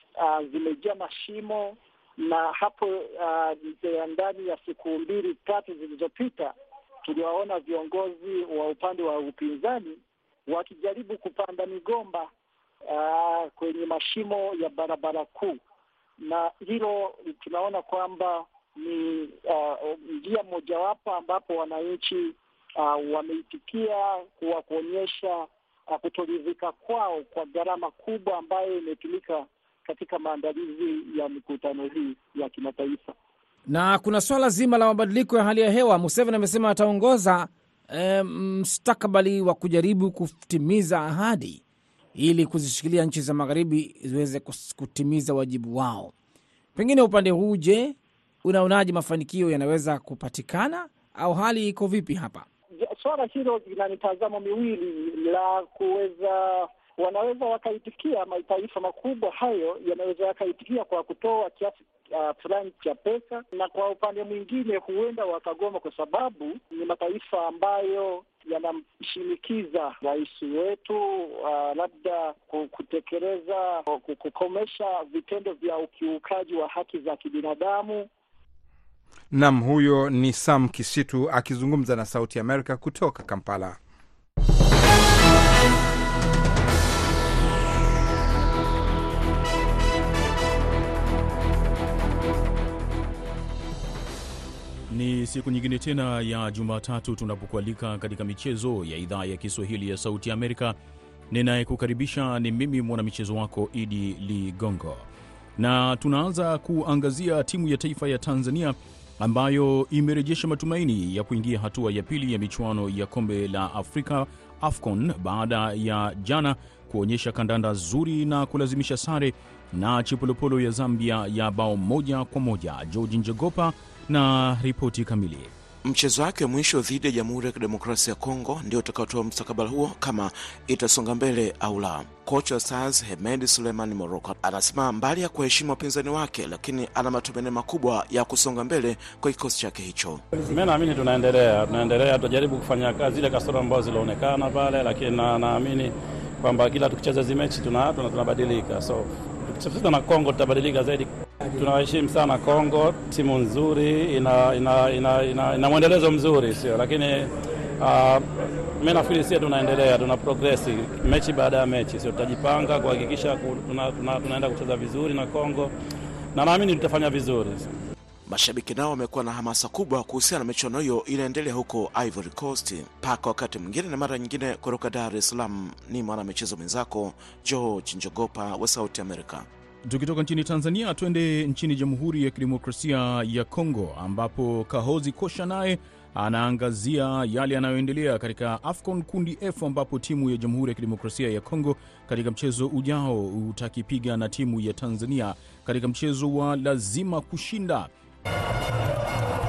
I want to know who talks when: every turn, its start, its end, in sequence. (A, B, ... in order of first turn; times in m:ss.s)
0:00.2-0:06.5 A
0:07.0-0:12.3 A
0:12.9-0:15.6 A
0:16.2-0:33.2 A
0:33.7-0:41.6 B
0:42.2-0:46.1 B
0:46.8-0:52.5 B
0:52.8-1:18.1 A
1:19.3-1:23.8 C
1:34.9-1:40.8 D
1:41.3-1:45.1 D
1:45.6-2:05.5 D
2:05.8-2:20.2 E
2:20.4-2:38.3 F
2:38.8-2:45.7 F
2:46.4-2:47.7 F
2:48.3-2:59.5 E
2:59.8-3:17.9 D